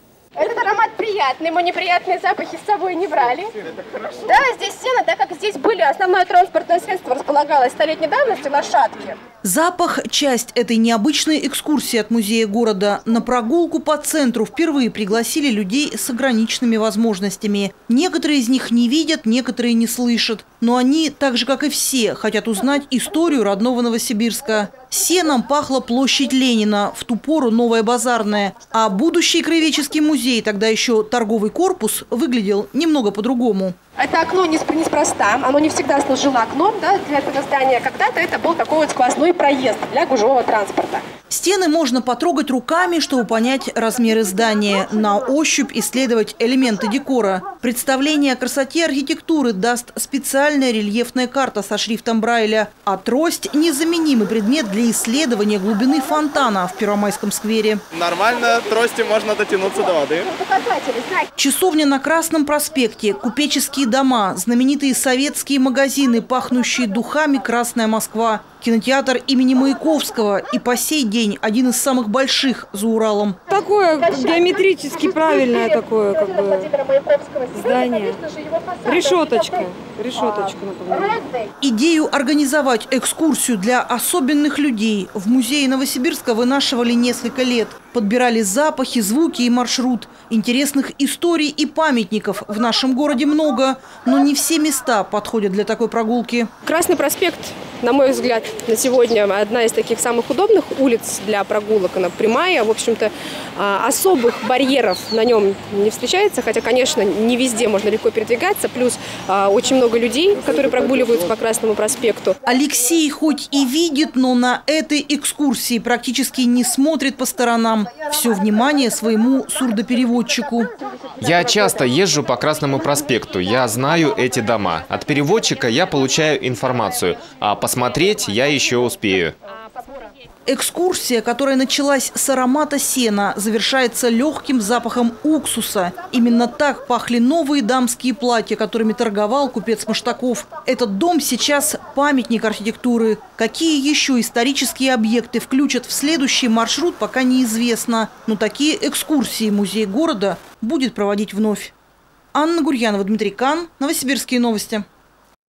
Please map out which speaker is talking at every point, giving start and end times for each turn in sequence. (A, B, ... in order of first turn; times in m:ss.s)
0:00.4-0:03.5 A
0:04.2-0:09.2 A
0:09.4-0:33.8 B
0:34.0-0:41.0 A
0:41.3-0:57.8 B
0:57.9-1:00.4 C
1:00.4-1:01.2 A
1:01.4-1:13.4 B
1:13.5-1:16.7 D
1:15.4-1:15.7 A
1:16.4-1:19.6 A
1:17.5-1:18.2 D
1:18.8-1:21.2 D
1:21.6-1:36.5 B
1:36.6-1:52.3 A
1:52.4-2:00.7 B
2:01.2-2:09.3 E
2:10.5-2:31.7 B
2:32.3-2:34.8 B